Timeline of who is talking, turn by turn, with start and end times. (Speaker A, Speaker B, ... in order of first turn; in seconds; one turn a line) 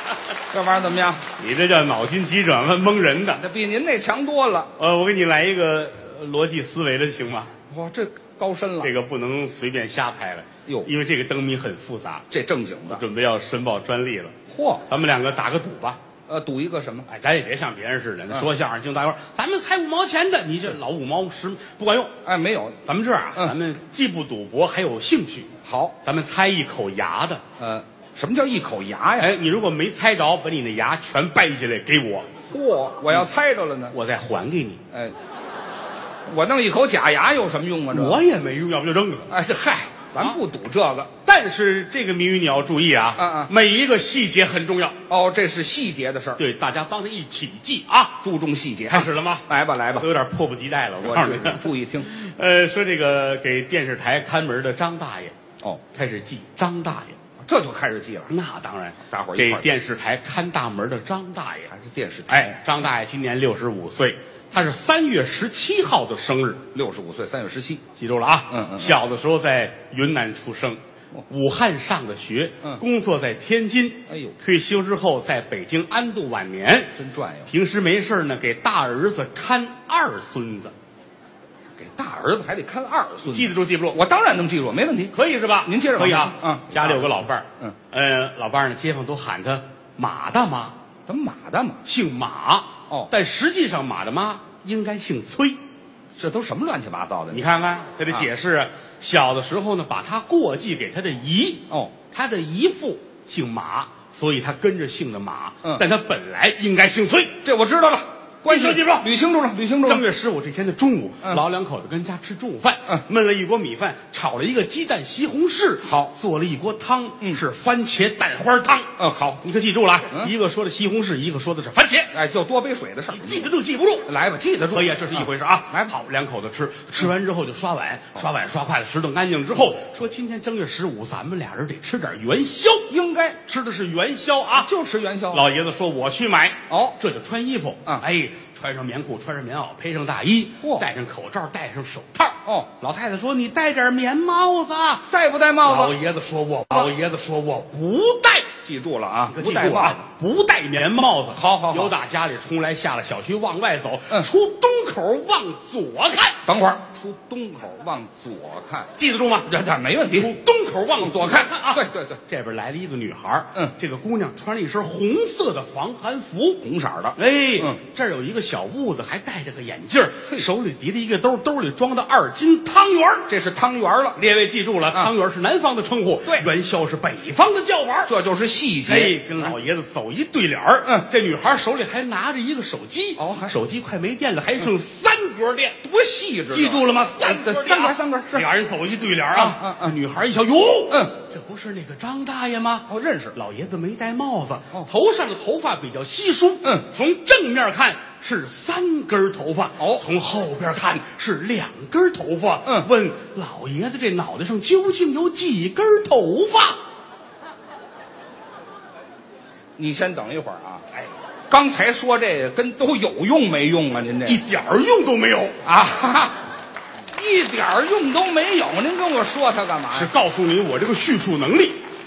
Speaker A: 0.5-1.2
Speaker B: 1.4-3.4
Speaker A: 3.4-4.7
Speaker B: 4.8-7.5
Speaker A: 7.7-8.9
Speaker B: 8.8-12.3
Speaker A: 12.3-13.1
Speaker B: 12.9-14.3
Speaker A: 14.5-14.9
Speaker B: 14.9-16.0
Speaker A: 16.3-17.1
Speaker B: 17.1-22.1
Speaker A: 22.2-22.8
Speaker B: 22.9-25.5
Speaker A: 25.6-26.0
Speaker B: 26.0-27.4
Speaker A: 27.6-29.3
Speaker B: 29.2-32.3
Speaker A: 32.4-34.0
Speaker B: 33.9-34.8
Speaker A: 36.3-38.2
Speaker B: 37.9-39.3
Speaker A: 39.3-41.1
Speaker B: 41.2-45.0
Speaker A: 43.2-43.5
Speaker A: 45.1-46.4
Speaker B: 46.4-48.2
Speaker A: 48.2-50.1
Speaker B: 48.9-55.4
Speaker A: 51.0-52.1
Speaker B: 55.9-57.2
Speaker A: 57.4-58.4
Speaker B: 58.3-61.7
Speaker A: 59.0-59.7
Speaker A: 61.7-62.6
Speaker B: 62.3-66.7
Speaker A: 66.7-67.8
Speaker B: 68.0-76.9
Speaker A: 68.5-69.0
Speaker A: 74.1-74.4
Speaker A: 77.0-77.5
Speaker B: 77.5-80.7
Speaker A: 81.8-87.8
Speaker B: 83.3-84.0
Speaker B: 85.1-90.8
Speaker A: 91.1-91.8
Speaker B: 91.8-95.6
Speaker A: 96.2-97.5
Speaker B: 97.3-107.4
Speaker A: 101.7-101.9
Speaker A: 107.4-110.0
Speaker B: 108.4-109.1
Speaker B: 109.8-118.9
Speaker A: 115.8-116.1
Speaker A: 119.0-119.4
Speaker B: 119.4-122.1
Speaker A: 122.1-123.5
Speaker B: 123.1-124.1
Speaker A: 124.0-126.0
Speaker B: 124.7-132.9
Speaker A: 132.9-133.4
Speaker B: 133.4-134.7
Speaker A: 134.6-135.4
Speaker B: 135.3-145.1
Speaker A: 136.7-137.0
Speaker A: 140.6-140.9
Speaker A: 145.1-146.0
Speaker B: 145.6-148.5
Speaker A: 148.6-150.0
Speaker B: 149.3-156.4
Speaker A: 151.3-152.0
Speaker A: 156.4-160.3
Speaker B: 159.0-159.5
Speaker B: 160.1-166.6
Speaker A: 161.0-162.2
Speaker A: 166.6-167.8
Speaker B: 167.2-173.3
Speaker A: 173.3-174.2
Speaker B: 174.2-178.1
Speaker A: 178.1-179.6
Speaker B: 178.9-185.8
Speaker A: 183.2-183.6
Speaker A: 185.8-188.5
Speaker B: 186.5-206.8
Speaker A: 189.3-189.9
Speaker A: 190.9-191.2
Speaker A: 192.9-193.4
Speaker A: 199.8-200.0
Speaker A: 209.8-210.9
Speaker A: 211.5-214.4
Speaker B: 214.2-215.6
Speaker A: 215.6-216.4
Speaker A: 217.1-220.1
Speaker B: 219.9-221.8